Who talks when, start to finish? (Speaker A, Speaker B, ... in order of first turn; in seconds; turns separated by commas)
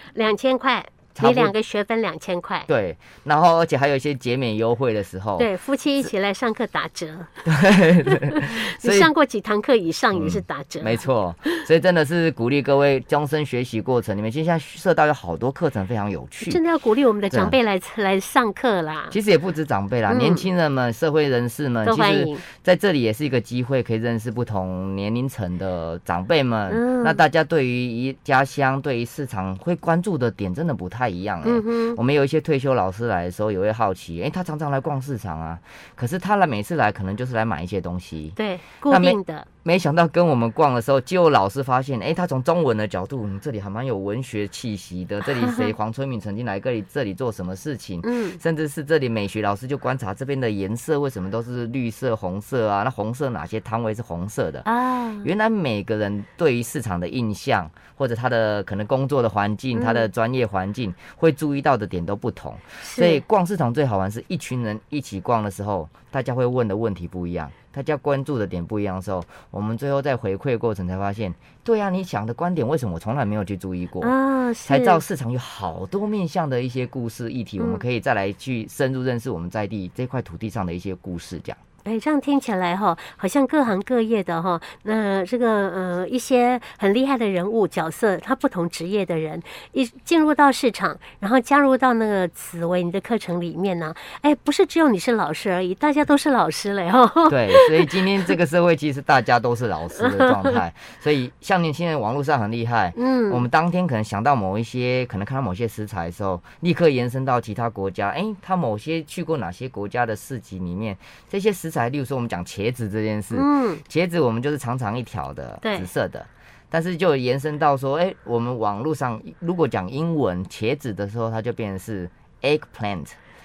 Speaker A: 0.1-2.7, Speaker B: 1.1-1.5, Speaker B: 2.7-6.1, Speaker A: 5.4-7.5, Speaker B: 7.5-9.1, Speaker A: 8.0-11.6, Speaker B: 10.1-16.6, Speaker A: 16.4-19.1, Speaker B: 17.3-17.6, Speaker B: 19.1-54.7, Speaker A: 20.1-20.5, Speaker A: 21.8-22.4, Speaker A: 26.7-27.2, Speaker A: 31.4-32.0, Speaker A: 38.4-39.5, Speaker A: 45.4-45.7, Speaker A: 48.0-48.4, Speaker A: 54.6-55.3, Speaker B: 55.2-81.6, Speaker A: 59.8-60.1, Speaker A: 62.8-63.2, Speaker A: 74.0-75.0, Speaker A: 81.8-98.3, Speaker B: 97.3-123.2, Speaker A: 100.0-100.6, Speaker A: 103.0-103.5, Speaker A: 113.3-113.8, Speaker A: 115.6-115.9